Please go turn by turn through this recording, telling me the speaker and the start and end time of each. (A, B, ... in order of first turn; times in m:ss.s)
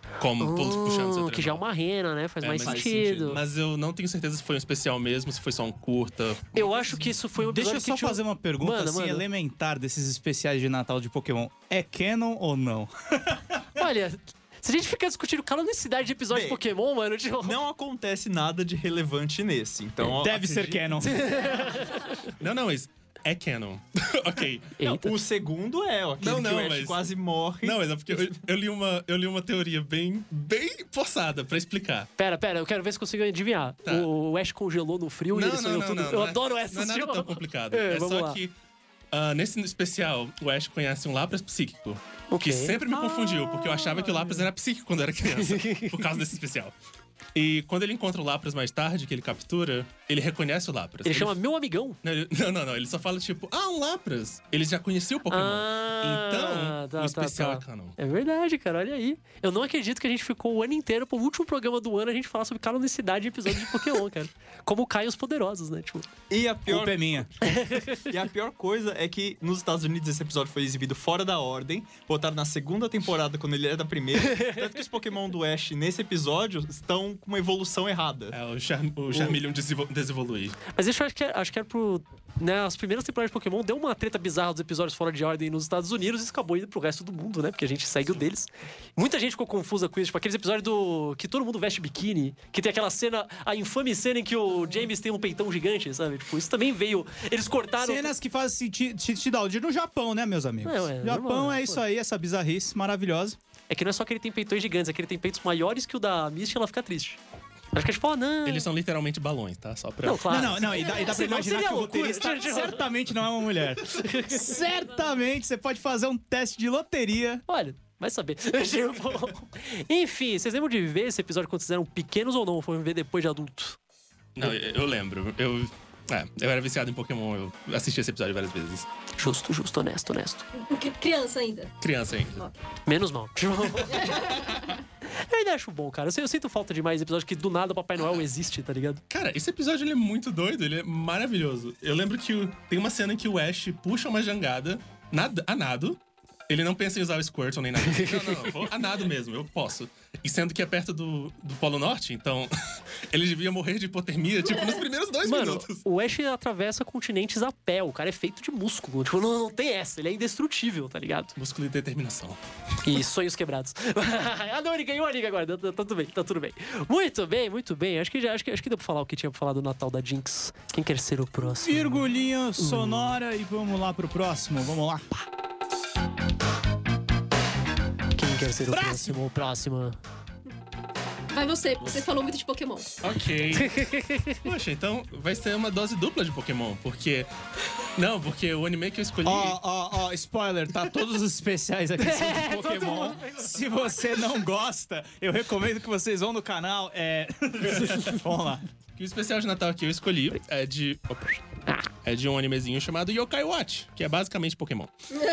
0:00.2-0:01.6 A
0:00.4-0:03.4 B
0:02.4-0:07.1 A
0:02.6-0:03.0 C
0:06.6-0:09.2 B
0:07.4-0:13.6 D
0:13.8-0:17.6 B
0:16.3-0:16.6 C
0:17.4-0:21.0 C
0:20.0-0:21.2 D
0:21.0-0:22.2 B
0:22.3-0:24.8 A
0:24.8-0:25.2 B
0:24.8-0:28.3 C
0:26.2-0:27.1 A
0:27.6-0:32.1 A
0:32.2-0:38.4 B
0:35.3-0:38.5 A
0:39.1-0:46.7 A
0:42.3-0:44.4 B
0:45.3-0:46.1 B
0:47.4-0:51.4 A
0:51.0-0:52.0 B
0:52.0-0:58.0 A
0:55.3-1:06.1 B
1:06.3-1:18.4 C
1:06.7-1:07.3 D
1:07.4-1:08.0 B
1:14.2-1:14.7 B
1:18.3-1:20.6 A
1:20.7-1:38.1 B
1:37.8-1:43.4 D
1:40.6-1:41.8 B
1:43.7-1:47.2 B
1:47.7-1:48.7 B
1:48.4-1:50.9 A
1:50.0-1:52.9 B
1:50.3-1:57.4 D
1:53.9-1:54.6 B
1:57.5-2:03.8 B
2:04.4-2:08.9 A
2:09.2-2:10.5 B
2:10.6-2:11.7 E
2:11.8-2:12.4 A
2:12.9-2:14.2 B
2:14.0-2:14.4 E
2:15.1-2:19.0 B
2:19.1-2:32.5 A
2:27.8-2:28.6 B
2:33.1-2:35.8 A
2:35.2-2:41.4 B
2:41.4-2:42.4 A
2:42.8-2:53.2 B
2:51.5-2:55.2 D
2:58.2-3:00.0 B
2:58.7-2:59.2 D
3:01.3-3:02.9 E
3:03.0-3:07.3 A
3:03.6-3:04.4 B
3:08.0-3:09.6 A
3:09.2-3:18.6 D
3:12.0-3:14.0 B
3:19.0-3:21.4 A
3:22.0-3:24.9 A